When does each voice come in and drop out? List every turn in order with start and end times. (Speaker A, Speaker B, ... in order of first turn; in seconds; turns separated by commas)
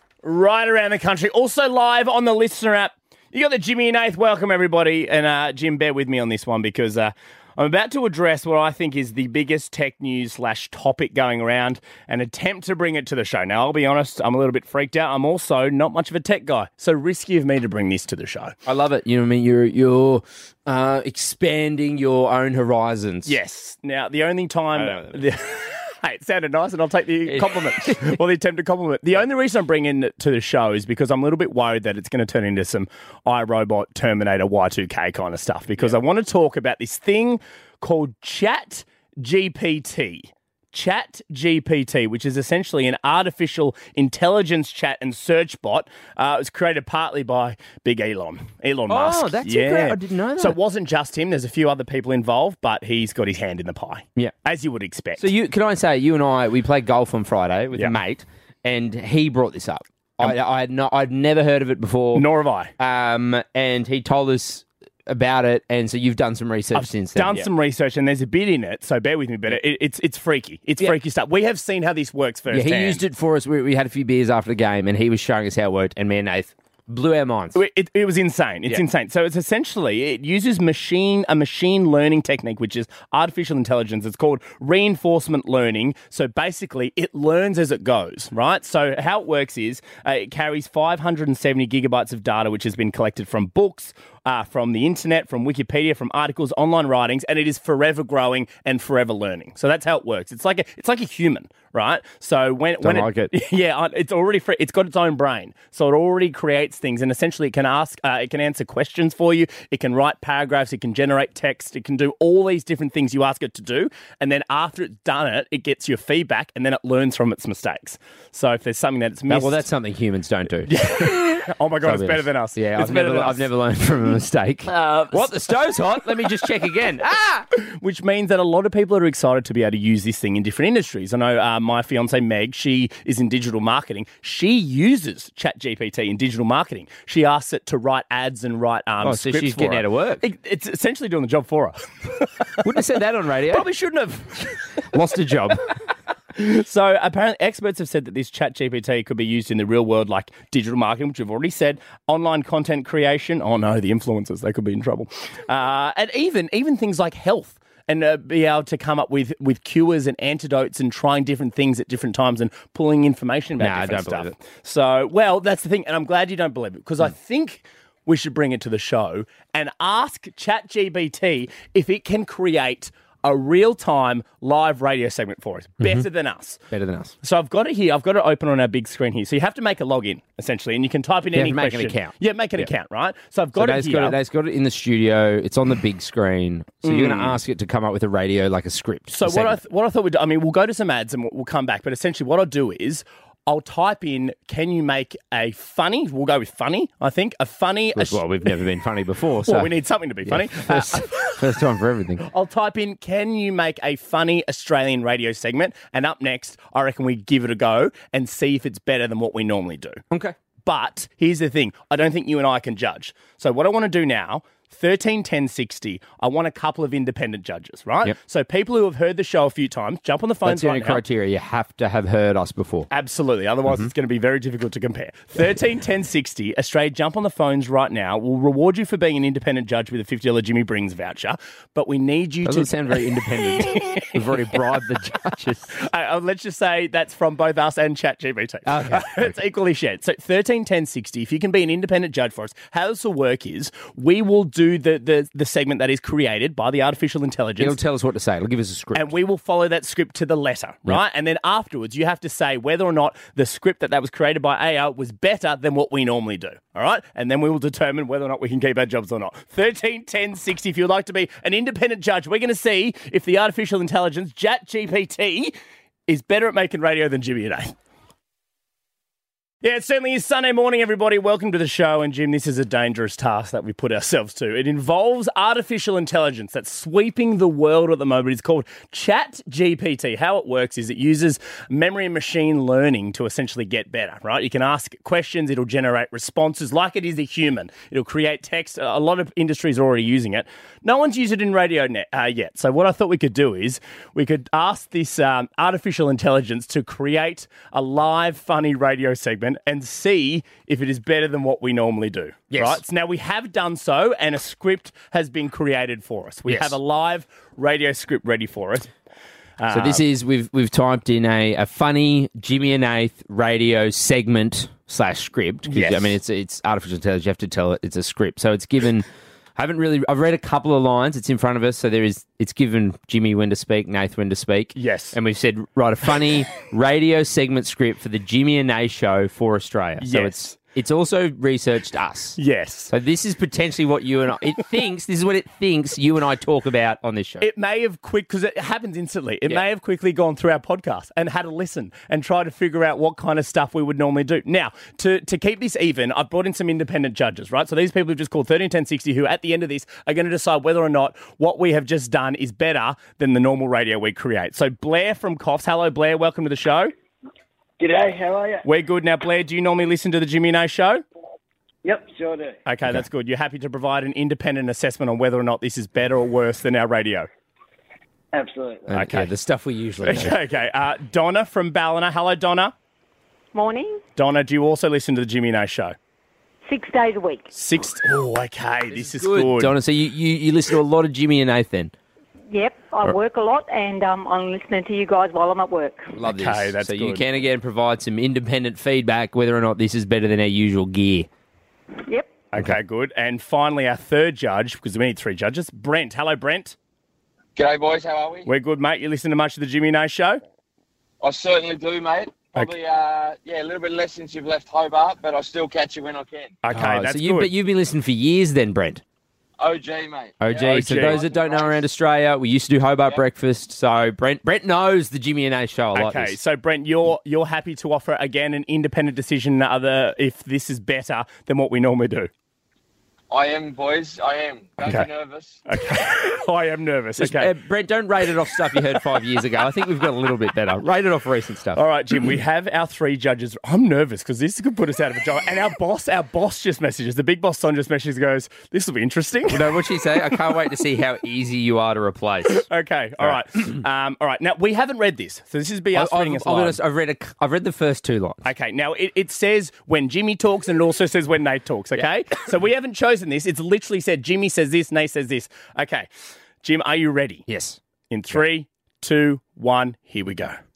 Speaker A: 0.2-18.5, Speaker B: 18.6-23.4, Speaker A: 23.2-55.3, Speaker B: 24.7-25.2, Speaker B: 27.2-28.2, Speaker B: 48.9-50.6, Speaker B: 55.2-67.5, Speaker A: 62.1-62.7, Speaker A: 66.7-73.0, Speaker B: 72.5-77.6, Speaker A: 77.5-119.7, Speaker B: 102.8-103.3, Speaker B: 119.3-127.5, Speaker A: 120.7-123.5, Speaker A: 124.7-125.3, Speaker A: 127.6-142.3, Speaker B: 139.0-140.2, Speaker B: 142.6-143.7, Speaker A: 143.5-144.6, Speaker B: 144.9-145.6, Speaker A: 146.3-176.6, Speaker B: 163.6-164.3, Speaker B: 175.8-176.1, Speaker B: 176.7-177.1, Speaker A: 177.2-184.2, Speaker B: 181.3-182.7, Speaker B: 183.6-189.6, Speaker A: 186.8-187.4, Speaker A: 189.1-198.2, Speaker B: 197.9-202.2, Speaker A: 199.4-201.4, Speaker A: 202.2-210.0, Speaker A: 210.6-221.0, Speaker B: 220.4-222.9, Speaker A: 222.9-234.5, Speaker B: 232.4-235.8, Speaker A: 235.8-247.8, Speaker B: 238.7-239.3, Speaker B: 247.6-249.1, Speaker A: 248.9-265.6, Speaker A: 266.1-267.7, Speaker A: 269.6-308.9, Speaker B: 302.5-302.8, Speaker B: 306.4-306.8, Speaker A: 309.6-310.0, Speaker B: 309.7-332.4, Speaker A: 315.7-316.1, Speaker A: 324.8-325.2, Speaker A: 330.0-330.5, Speaker A: 332.4-332.9, Speaker B: 332.9-337.5, Speaker A: 337.4-356.9, Speaker C: 357.8-358.6, Speaker A: 358.6-361.0, Speaker C: 361.8-362.6, Speaker A: 362.6-367.3, Speaker C: 368.3-368.9, Speaker B: 368.9-370.4, Speaker A: 368.9-369.3, Speaker A: 370.0-372.7, Speaker D: 373.6-373.9, Speaker A: 374.1-375.9, Speaker D: 376.7-377.4, Speaker A: 377.5-379.7, Speaker B: 378.9-381.9, Speaker D: 382.5-386.0, Speaker B: 386.1-391.3, Speaker A: 386.2-387.2, Speaker A: 392.5-396.7, Speaker E: 397.6-398.5, Speaker A: 398.4-400.4, Speaker E: 401.2-406.6, Speaker A: 406.6-407.5, Speaker B: 406.7-409.0, Speaker E: 409.6-411.9, Speaker B: 410.4-416.4, Speaker A: 410.6-411.2, Speaker A: 415.9-422.3, Speaker E: 423.3-425.6, Speaker A: 424.8-425.1, Speaker A: 425.7-427.5, Speaker B: 427.2-431.8, Speaker A: 431.7-439.7, Speaker B: 439.5-442.6, Speaker A: 442.5-446.8, Speaker B: 445.9-448.4, Speaker A: 448.4-456.1, Speaker A: 456.6-457.4, Speaker B: 457.5-457.8, Speaker A: 458.1-460.6